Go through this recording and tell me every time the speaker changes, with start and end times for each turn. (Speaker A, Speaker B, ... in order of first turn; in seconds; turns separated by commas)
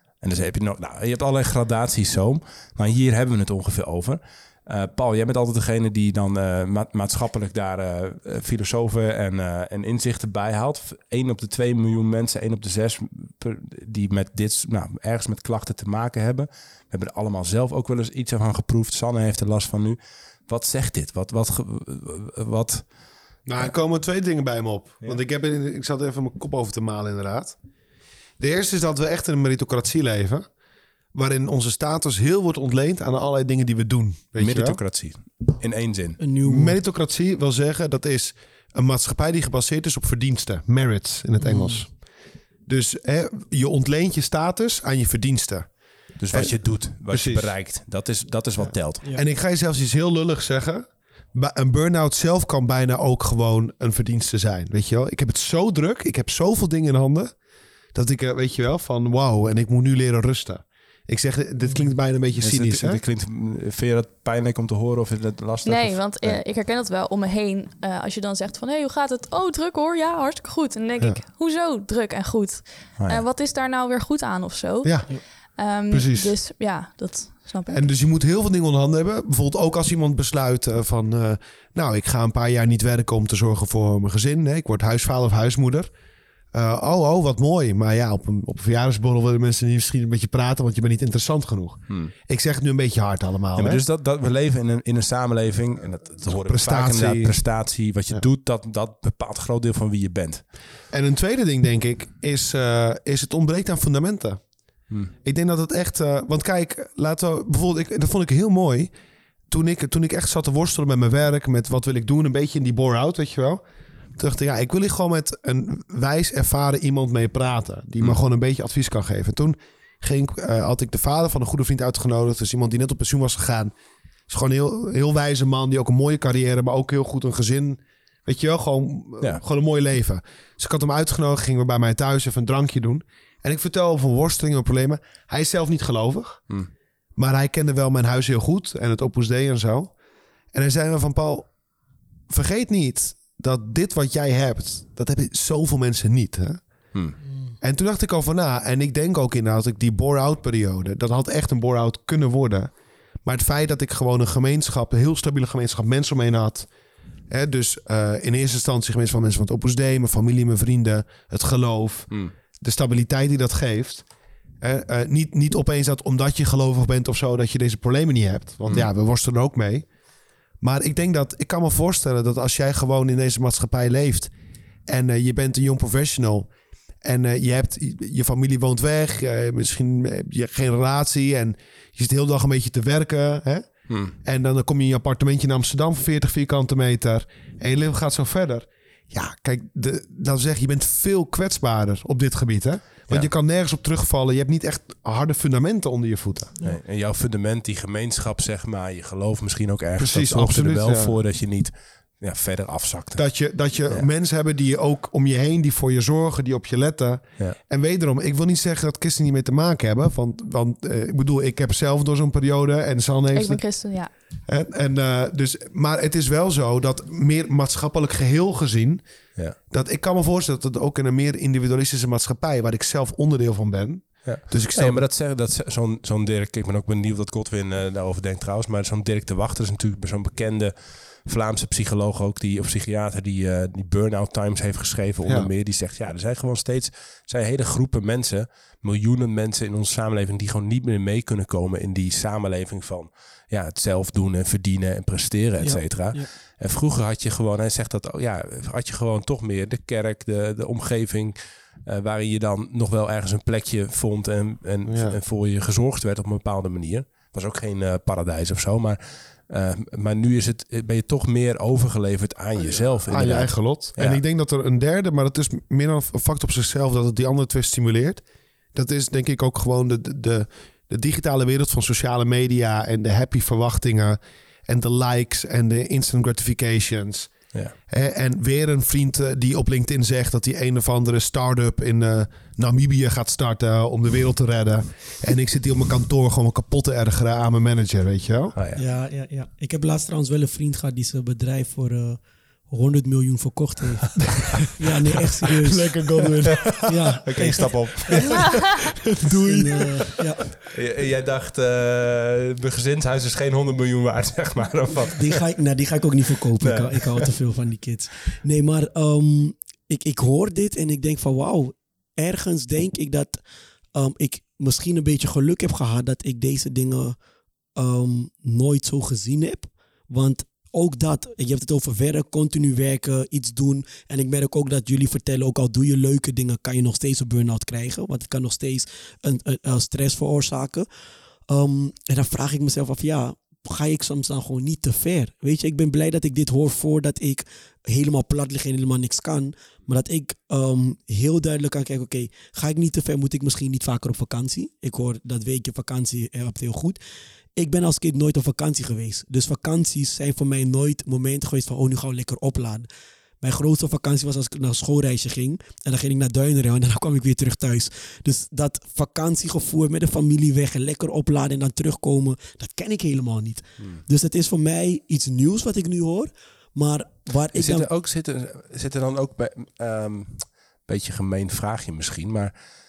Speaker A: 0.2-22.9, Speaker B: 23.5-27.6, Speaker B: 28.4-30.5, Speaker B: 31.1-34.8, Speaker A: 34.4-36.2, Speaker C: 36.2-36.8, Speaker B: 36.4-42.1, Speaker C: 41.4-41.8, Speaker B: 42.6-47.5, Speaker A: 46.2-49.0, Speaker B: 48.6-57.4, Speaker B: 57.9-63.0, Speaker C: 61.6-61.9, Speaker A: 62.4-66.4, Speaker D: 65.7-77.9, Speaker A: 73.0-73.2, Speaker B: 74.8-75.2, Speaker B: 75.9-76.4, Speaker B: 77.7-85.9, Speaker B: 86.5-93.8, Speaker A: 93.6-100.5, Speaker B: 96.3-97.4, Speaker B: 100.9-104.5, Speaker B: 105.2-108.9, Speaker B: 109.5-113.6, Speaker B: 114.2-123.7, Speaker B: 124.3-136.5, Speaker B: 137.2-139.9, Speaker B: 140.5-141.5, Speaker B: 142.3-146.6, Speaker B: 147.6-152.7, Speaker B: 153.2-156.7, Speaker B: 157.3-164.1, Speaker B: 164.6-169.9, Speaker B: 170.6-174.3, Speaker B: 174.9-176.5, Speaker B: 177.0-183.7, Speaker A: 183.9-184.2, Speaker B: 184.2-196.5, Speaker A: 196.6-203.2, Speaker B: 200.0-201.2, Speaker B: 203.2-213.7, Speaker D: 213.3-214.1, Speaker B: 214.5-219.0, Speaker B: 219.7-225.0, Speaker A: 224.2-264.2, Speaker B: 235.2-235.5, Speaker C: 245.6-246.3, Speaker B: 254.9-255.2, Speaker B: 262.6-268.2, Speaker B: 268.7-277.3, Speaker B: 277.9-288.6, Speaker A: 288.6-288.8, Speaker C: 288.8-297.7, Speaker B: 295.4-296.8, Speaker A: 296.6-298.6, Speaker B: 299.2-300.1, Speaker C: 299.3-300.6, Speaker A: 300.6-305.4, Speaker C: 305.1-313.4, Speaker A: 306.6-307.3, Speaker C: 313.9-317.2, Speaker C: 317.8-330.9, Speaker C: 331.5-347.0, Speaker C: 347.6-352.9, Speaker C: 353.4-367.9, Speaker A: 367.5-372.5